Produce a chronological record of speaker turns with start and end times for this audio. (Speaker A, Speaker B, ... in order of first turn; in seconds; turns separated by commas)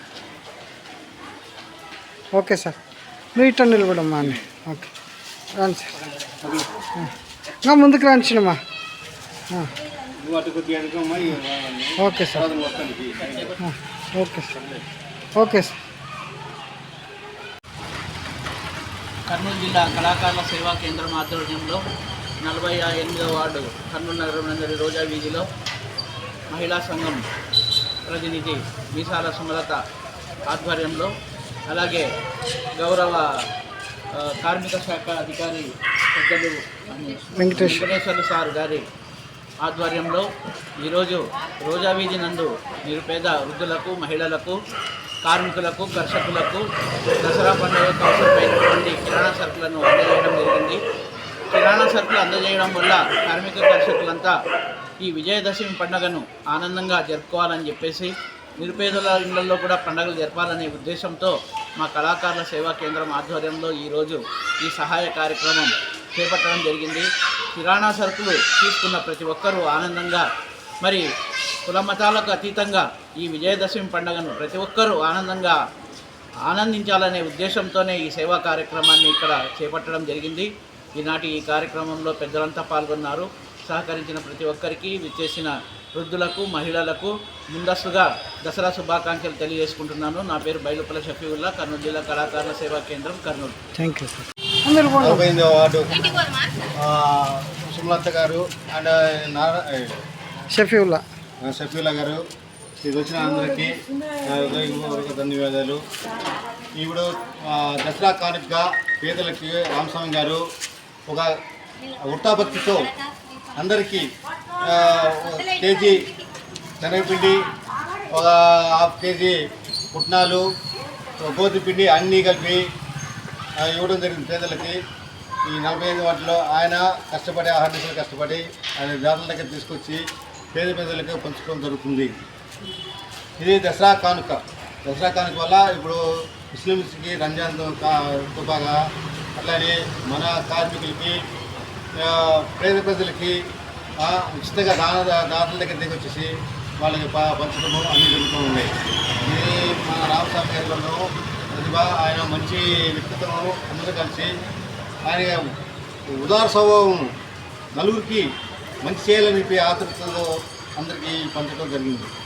Speaker A: 2.3-2.8, Speaker A: 3.4-4.9, Speaker A: 5.6-5.9, Speaker B: 6.4-6.8, Speaker A: 7.6-8.6, Speaker B: 10.2-13.6, Speaker A: 12.0-12.4, Speaker A: 13.6-14.5, Speaker B: 14.5-14.8, Speaker A: 15.4-15.8, Speaker C: 19.3-21.8, Speaker C: 22.4-25.5, Speaker C: 26.5-27.2, Speaker C: 28.1-29.8, Speaker C: 30.5-31.1, Speaker C: 31.7-32.1, Speaker C: 32.8-33.3, Speaker C: 34.1-38.8, Speaker A: 37.4-37.9, Speaker C: 39.6-40.3, Speaker C: 40.8-44.6, Speaker C: 45.2-46.6, Speaker C: 47.2-50.8, Speaker C: 51.5-54.3, Speaker C: 55.0-70.2, Speaker C: 71.7-75.6, Speaker C: 76.5-93.6, Speaker A: 93.8-95.3, Speaker B: 95.0-100.0, Speaker A: 100.5-101.0, Speaker B: 101.4-102.2, Speaker B: 102.8-103.7, Speaker B: 104.2-105.8, Speaker B: 106.8-110.4, Speaker B: 111.1-111.3, Speaker B: 111.9-112.9, Speaker B: 113.6-114.1, Speaker B: 114.6-116.1, Speaker B: 116.8-117.4, Speaker B: 118.1-119.4, Speaker B: 119.9-120.4, Speaker B: 121.2-122.6, Speaker B: 123.6-124.8, Speaker B: 125.5-132.2, Speaker B: 133.4-138.8, Speaker B: 139.4-141.2, Speaker B: 142.0-143.4, Speaker B: 144.0-148.7, Speaker B: 149.2-154.3, Speaker B: 155.1-155.4, Speaker B: 156.1-157.1, Speaker B: 157.7-158.3, Speaker B: 158.8-162.1